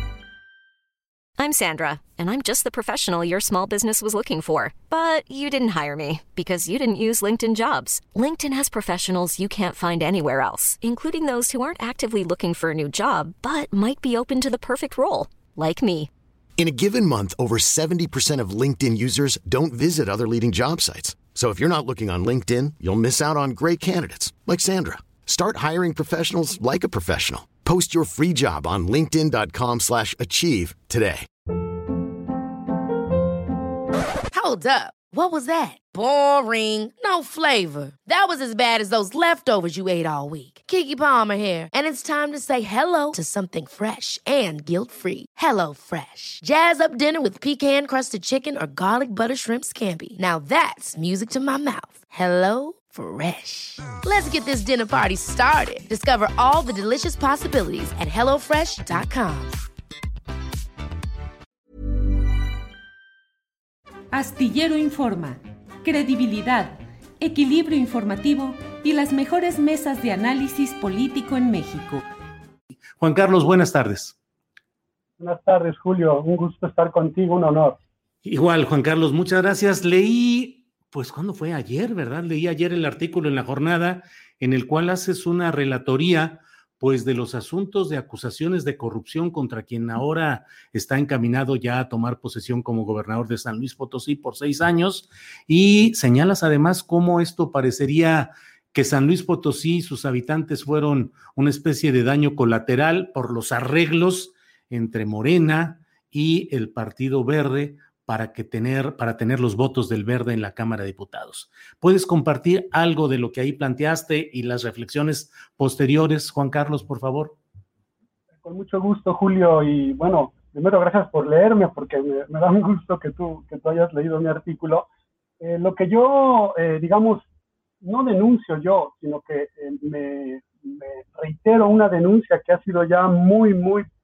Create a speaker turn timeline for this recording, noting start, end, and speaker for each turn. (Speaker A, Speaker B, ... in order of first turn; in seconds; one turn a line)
Speaker A: 1.4-16.1
Speaker B: 16.6-31.3
Speaker C: 34.3-59.5
Speaker D: 64.1-72.0
Speaker E: 73.0-74.2
Speaker F: 75.2-77.8
Speaker E: 78.2-117.4
Speaker F: 118.4-124.9
Speaker F: 125.4-127.3
Speaker F: 127.8-133.9